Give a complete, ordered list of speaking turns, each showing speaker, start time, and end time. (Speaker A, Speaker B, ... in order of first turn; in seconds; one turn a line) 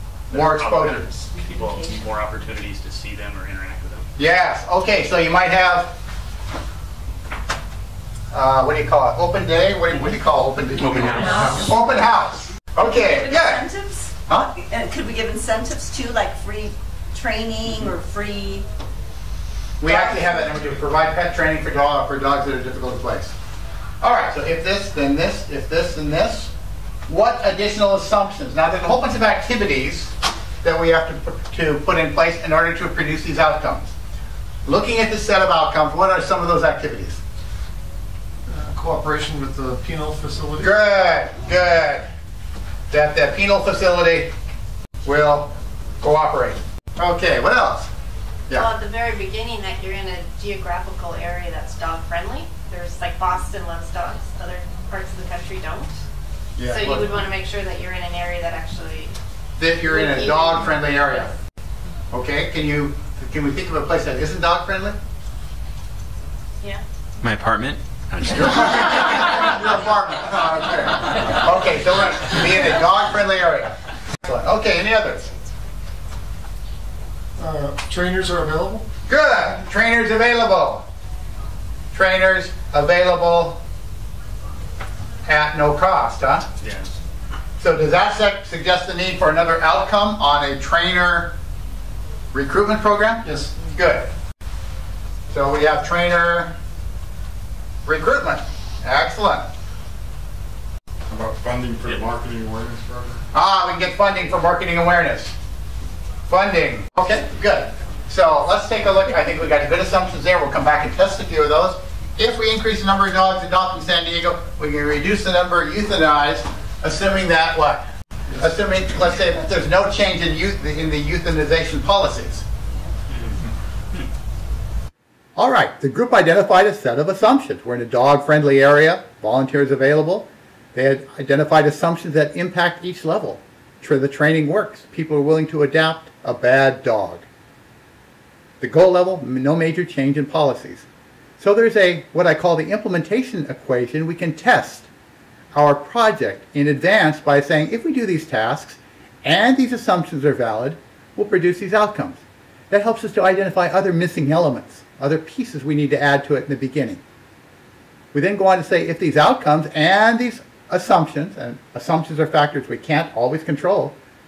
Speaker A: 0.3-4.1
Speaker B: 0.3-1.0
Speaker B: 4.2-5.9
Speaker B: 8.3-13.7
Speaker A: 10.8-11.7
Speaker C: 11.1-11.7
Speaker C: 12.8-18.6
Speaker B: 19.8-23.3
Speaker C: 19.9-20.4
Speaker B: 24.0-26.5
Speaker B: 27.1-33.9
Speaker B: 34.6-37.2
Speaker D: 38.5-40.7
Speaker B: 40.6-42.1
Speaker B: 42.9-44.3
Speaker B: 45.0-47.9
Speaker E: 48.5-55.9
Speaker B: 56.6-57.2
Speaker E: 56.6-59.1
Speaker B: 59.6-61.3
Speaker E: 59.9-61.2
Speaker B: 62.1-65.0
Speaker F: 67.2-69.7
Speaker B: 68.3-75.3
Speaker D: 77.4-78.8
Speaker B: 79.1-80.8
Speaker B: 81.9-83.6
Speaker B: 85.2-86.5
Speaker A: 86.6-86.9
Speaker B: 87.6-91.3
Speaker B: 92.3-94.1
Speaker D: 93.2-93.5
Speaker B: 95.3-96.5
Speaker B: 97.8-99.5
Speaker G: 101.1-103.2
Speaker B: 103.3-105.3
Speaker B: 106.3-117.8
Speaker B: 118.3-122.5
Speaker B: 125.3-137.2
Speaker B: 138.6-140.8
Speaker B: 141.4-144.9
Speaker B: 145.5-157.0
Speaker B: 158.1-163.9